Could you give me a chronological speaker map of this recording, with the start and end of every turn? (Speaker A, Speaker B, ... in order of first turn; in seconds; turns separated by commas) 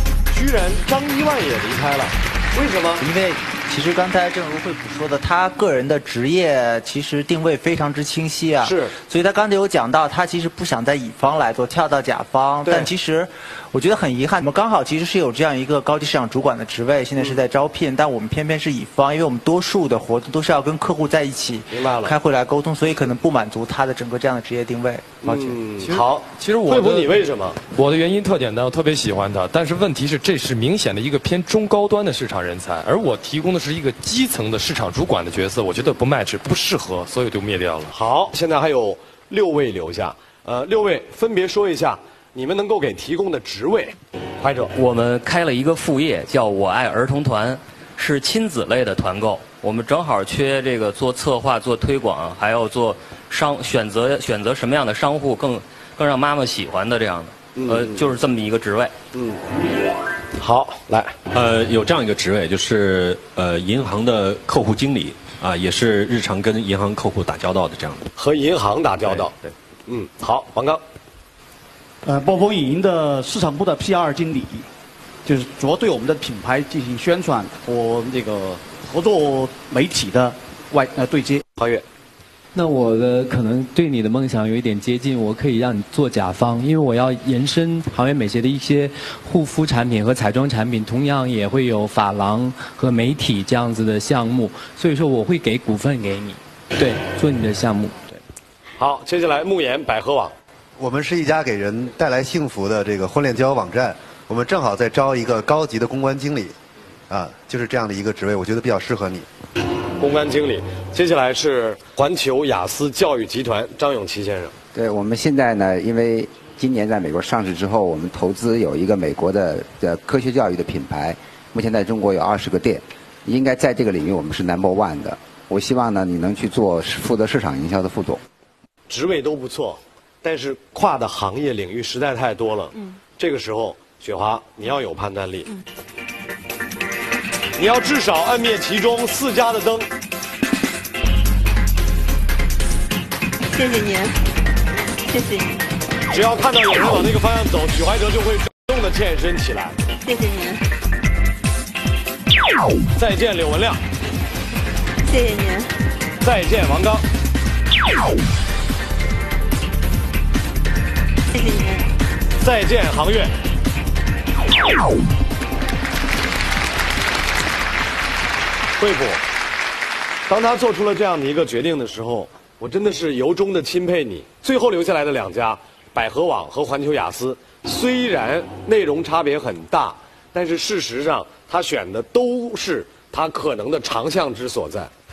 Speaker A: 0.3-3.1, Speaker B: 3.0-25.6, Speaker A: 8.6-8.9, Speaker A: 21.7-22.2, Speaker A: 25.2-27.6, Speaker C: 25.8-27.1, Speaker C: 27.7-38.0, Speaker A: 37.9-44.7, Speaker D: 44.8-59.0, Speaker A: 57.6-58.0, Speaker A: 59.1-59.4, Speaker A: 60.4-61.1, Speaker E: 61.3-68.1, Speaker A: 68.2-70.8, Speaker F: 72.1-74.7, Speaker F: 75.3-81.4, Speaker G: 82.5-98.0, Speaker A: 98.8-100.3, Speaker H: 100.8-106.5, Speaker H: 107.1-109.3, Speaker A: 110.0-114.5, Speaker I: 114.7-128.2, Speaker A: 128.9-135.5, Speaker A: 137.6-139.9, Speaker J: 143.4-144.1, Speaker J: 145.1-145.6, Speaker A: 146.1-149.8, Speaker J: 150.0-150.6, Speaker A: 152.9-153.8, Speaker J: 155.0-155.7, Speaker A: 156.2-157.0, Speaker J: 161.3-161.9, Speaker A: 162.4-163.3, Speaker A: 168.8-169.2, Speaker A: 170.3-184.9